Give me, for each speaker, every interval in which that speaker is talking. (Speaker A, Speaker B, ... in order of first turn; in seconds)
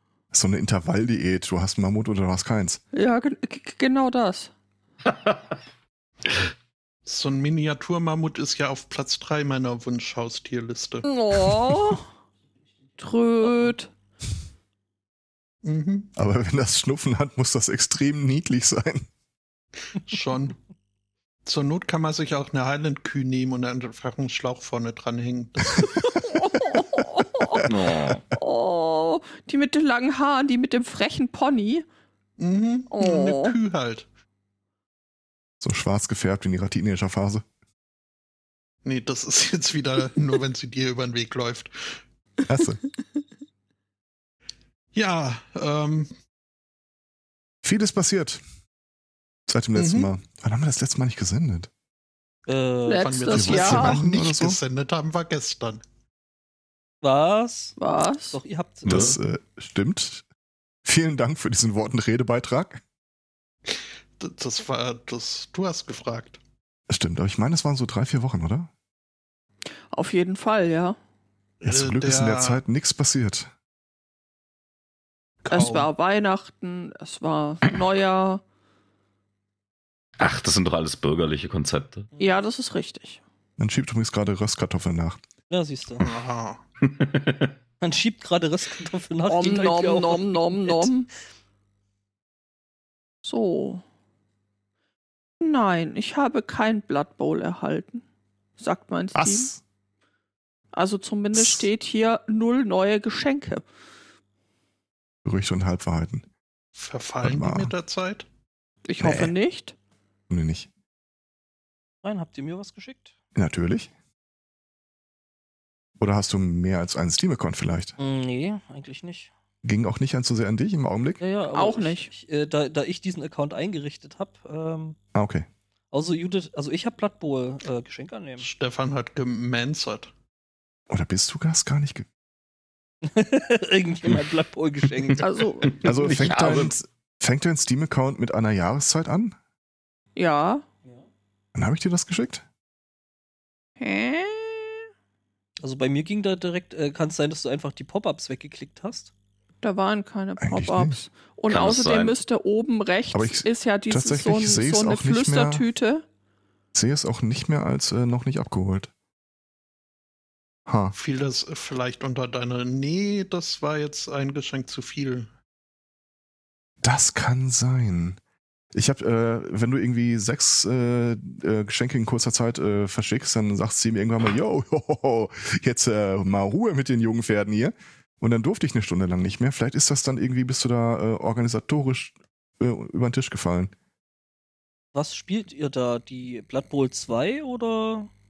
Speaker A: 0.3-2.8, 16.1-19.1, 27.4-27.7, 35.6-37.4, 42.5-42.8, 47.6-48.4, 49.5-51.7, 53.3-54.6, 58.8-60.2, 60.8-62.8, 66.9-68.7, 71.6-73.5, 83.6-85.2, 99.1-99.6, 101.3-101.6, 105.2-106.2, 107.2-107.7, 109.0-109.3, 110.3-110.7, 113.3-113.9, 116.0-117.9, 119.6-121.2, 125.1-125.5, 130.9-132.1, 135.8-139.3, 141.5-142.4, 150.4-151.0, 153.1-155.6, 156.7-158.9, 160.7-160.9, 166.8-168.2, 168.7-183.7
Speaker B: 2.9-4.5, 11.1-12.0, 13.0-13.9, 25.9-27.7, 28.3-31.8, 32.9-33.6, 52.9-54.0, 57.8-58.4, 69.9-71.0, 75.5-78.4, 82.2-83.2, 89.3-91.1, 93.2-93.8, 95.4-98.0, 98.6-99.5, 100.7-103.6, 108.8-109.7, 121.5-122.1, 135.2-135.8, 140.2-140.7, 143.8-144.8, 149.6-156.0
Speaker C: 5.0-5.5, 27.6-28.2, 58.9-59.2, 80.2-82.1, 86.8-87.5, 134.9-136.7, 151.5-152.2
Speaker D: 7.0-11.1, 15.6-16.1, 20.0-20.6, 21.4-25.9, 32.4-34.1, 38.8-42.0, 44.9-46.1, 49.7-50.1, 53.0-55.8, 63.7-66.4, 71.6-72.6, 75.4-75.9, 86.0-86.6, 106.8-108.3, 128.4-130.1, 160.9-165.3
Speaker E: 52.5-53.6, 57.0-57.8, 58.3-59.1, 85.5-86.1, 87.8-90.9, 112.0-113.1, 118.0-119.3, 121.2-125.0, 125.9-128.5, 133.0-135.3, 145.6-149.1, 184.9-188.1